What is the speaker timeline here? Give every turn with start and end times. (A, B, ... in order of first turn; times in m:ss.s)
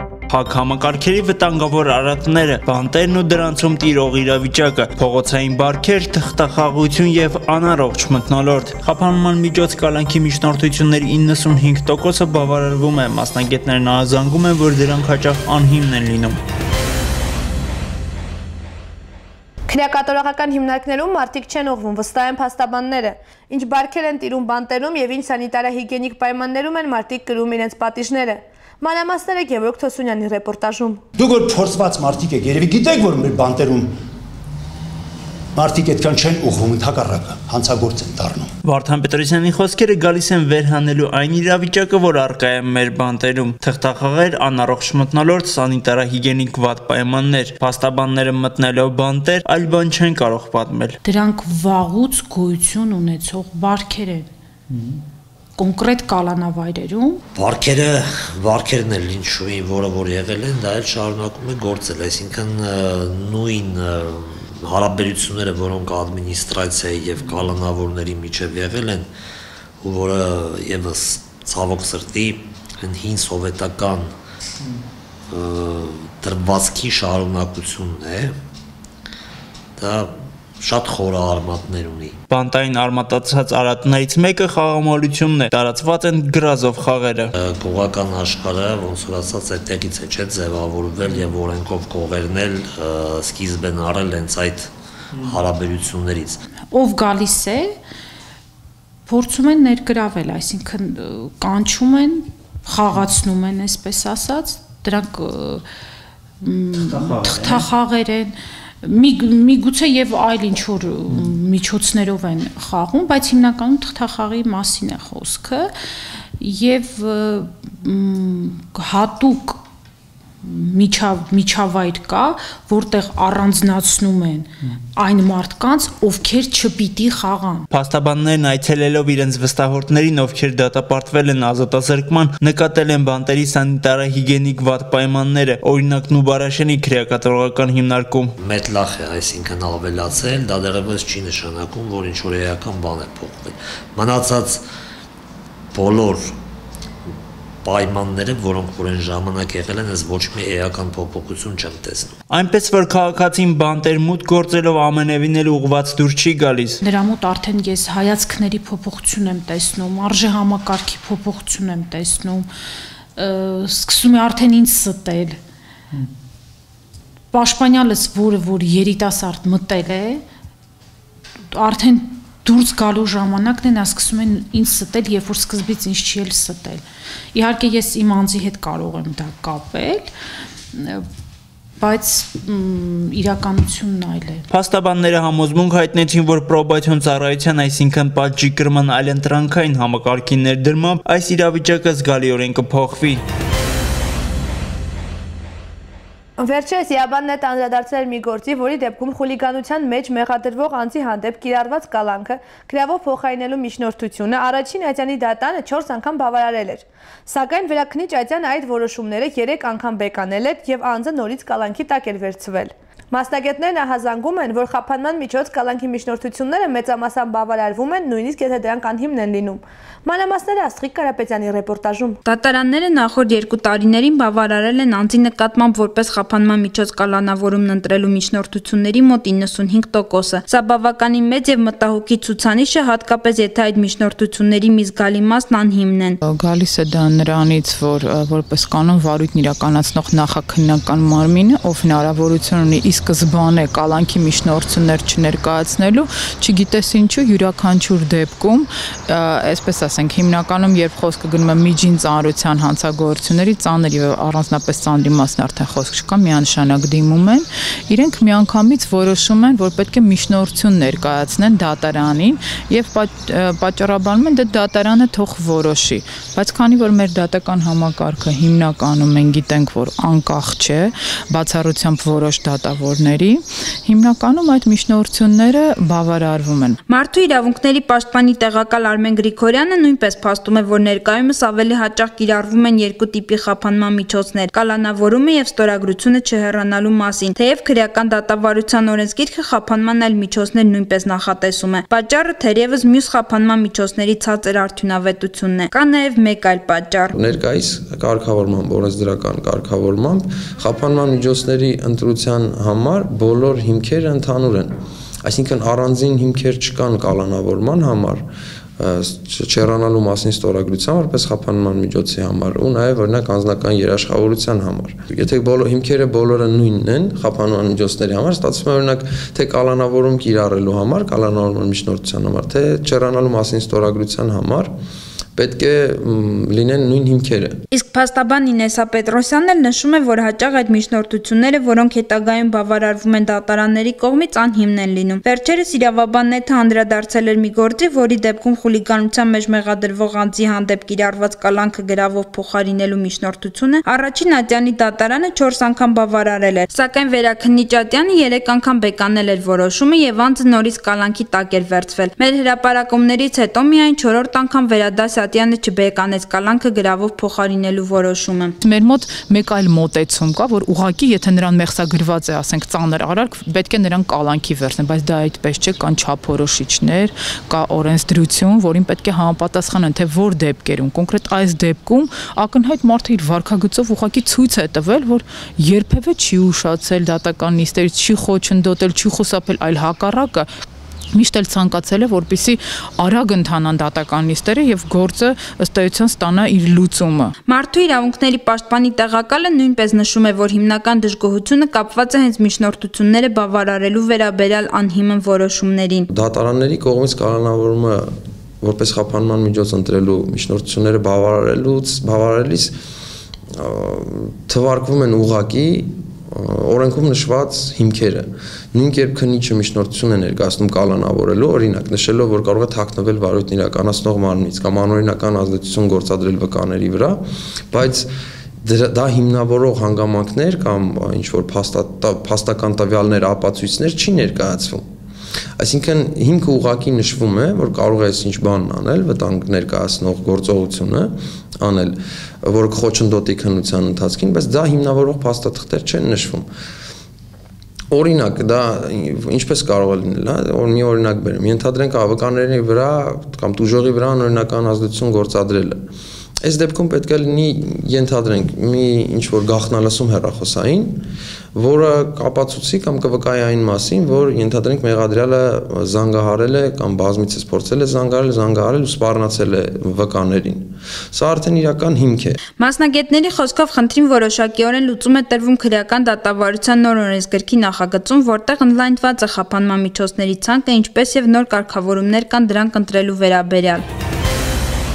0:00.3-0:16.4 A
0:19.7-0:31.0 B
0:31.2-0:33.9 C
0:35.6-0:38.5 C
0:38.6-0:51.0 A
0:51.0-0:54.3 D
0:55.6-0:57.2 D
0:57.3-1:09.1 E
1:09.8-1:14.1 E
1:15.3-1:18.3 E
1:19.8-1:22.2 E
1:22.3-1:27.3 A
1:27.4-1:34.7 E
1:35.2-1:36.4 E
1:36.7-1:37.7 D
1:39.1-1:45.6 D
1:46.4-1:55.7 D
1:46.8-1:47.6 A
1:56.4-1:59.6 D
2:00.4-2:07.7 D
2:07.7-2:18.3 A
2:18.4-2:24.6 E
2:25.7-2:26.3 E
2:27.6-2:32.2 E
2:32.3-2:36.8 A
2:36.8-2:42.5 D
2:43.2-2:45.4 D
2:47.3-2:50.2 D
2:51.5-2:56.8 D
2:57.3-3:00.1 D
3:00.7-3:01.0 D
3:01.8-3:04.4 D
3:04.5-3:13.2 A
3:16.4-3:42.2 B
3:42.2-3:56.2 F
3:56.2-4:36.8 G
4:36.9-4:57.1 F
4:57.1-5:04.7 H
5:05.2-5:08.2 H
5:08.8-5:24.7 H
5:25.4-5:27.5 H
5:27.7-5:58.5 F
5:58.6-6:20.5 G
6:21.1-6:27.3 G
6:27.5-6:36.1 F
6:36.1-6:38.1 H
6:38.6-6:42.7 H
6:43.6-6:58.1 H
6:58.6-7:04.8 H
7:05.6-7:16.5 H
7:17.9-7:25.8 H
7:26.4-7:31.0 H
7:31.5-7:42.4 H
7:42.6-7:53.8 F